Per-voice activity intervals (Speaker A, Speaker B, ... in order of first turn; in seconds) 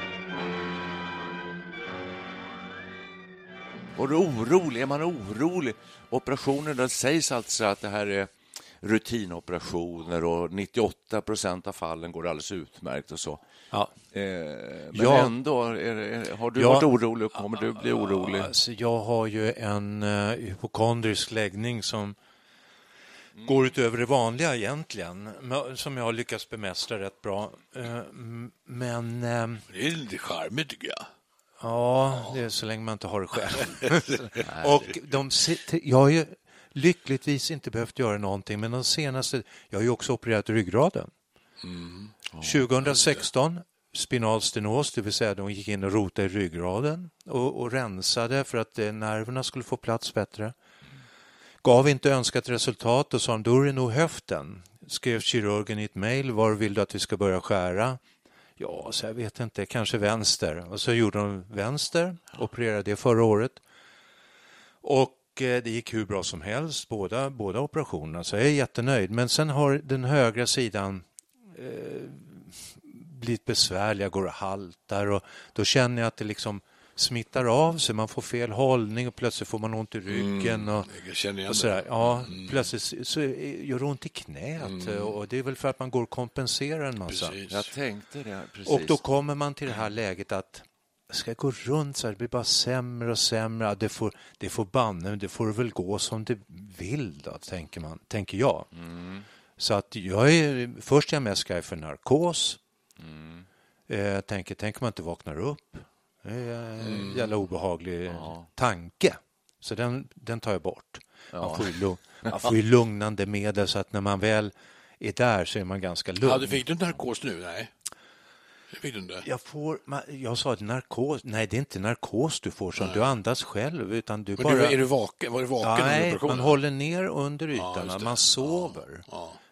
Speaker A: 4.0-13.4, 14.1-18.5, 34.5-34.8, 42.3-42.6, 87.5-89.0, 98.7-99.2, 103.0-103.5, 108.1-108.5, 111.3-111.8
Speaker B: 14.9-15.3, 16.6-16.9, 17.8-22.1, 23.4-29.6, 31.6-41.1, 42.4-50.5, 51.6-58.0, 58.6-63.6, 64.8-80.9, 81.5-87.4, 88.7-98.7, 99.6-102.6, 103.9-116.6, 119.2-124.8, 125.6-129.1
Speaker C: 29.7-31.1, 41.6-42.1, 80.1-82.7, 84.6-85.1, 87.1-87.7, 106.8-107.3, 116.2-117.7, 118.7-119.3, 122.8-123.1, 124.4-126.6, 127.5-129.4